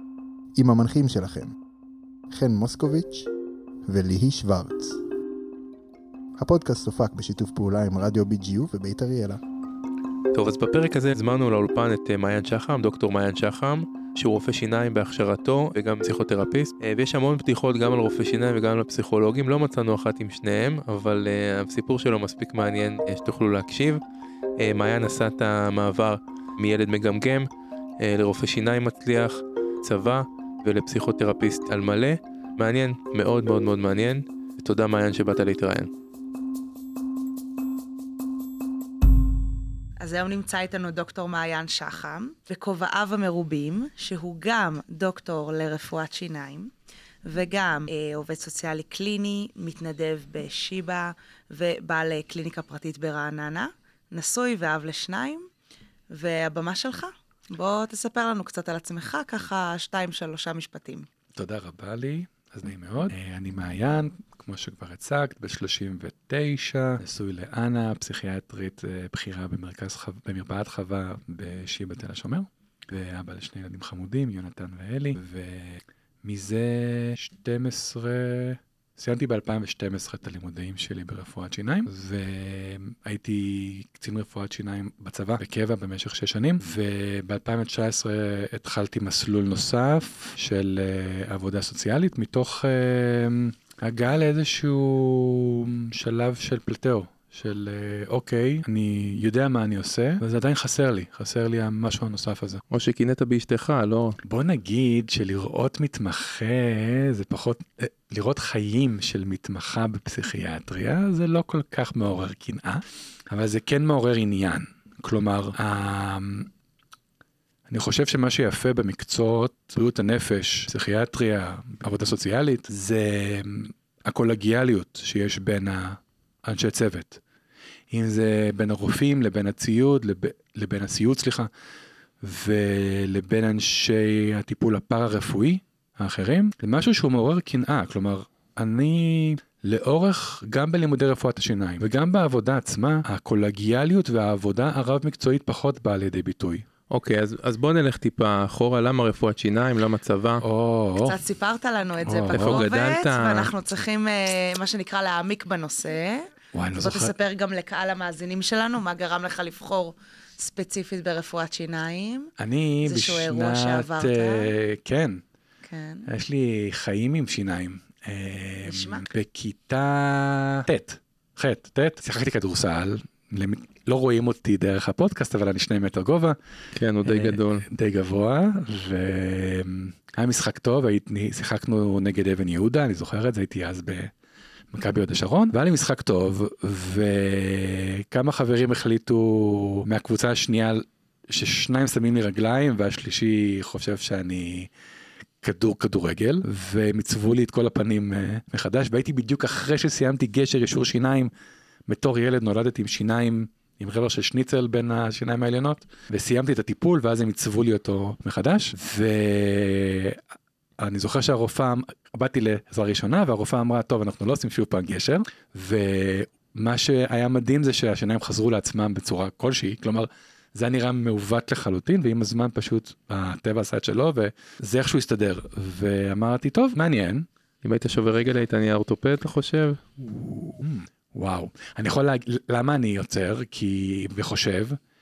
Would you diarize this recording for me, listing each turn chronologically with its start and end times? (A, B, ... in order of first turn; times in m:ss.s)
0:00.6-0:01.6 A
0:02.3-0:03.3 A
0:03.9-0:05.0 A
0:06.4-0:09.4 A
0:10.3-0:24.0 B
0:24.6-0:27.5 B
0:28.0-0:35.9 B
0:40.0-0:46.7 C
0:47.2-0:55.5 C
0:56.1-1:01.1 C
1:01.4-1:42.6 D
1:42.7-1:44.2 B
1:44.2-1:56.5 D
1:57.7-2:07.2 D
2:07.9-2:11.5 D
2:12.2-2:26.6 D
2:26.9-2:30.4 B
2:30.4-2:31.2 D
2:31.0-2:42.3 C
2:32.1-2:32.7 D
2:32.3-2:33.5 B
2:36.5-2:37.2 D
2:42.4-2:45.2 D
2:42.8-2:44.5 C
2:45.7-2:46.1 C
2:46.1-2:56.4 D
2:48.6-2:49.1 C
2:56.8-2:57.7 B
2:57.0-3:04.1 D
3:04.7-3:14.7 D
3:15.4-3:21.3 D
3:21.9-3:30.2 D
3:30.8-3:47.3 D
3:47.6-3:49.8 B
3:50.0-3:54.8 D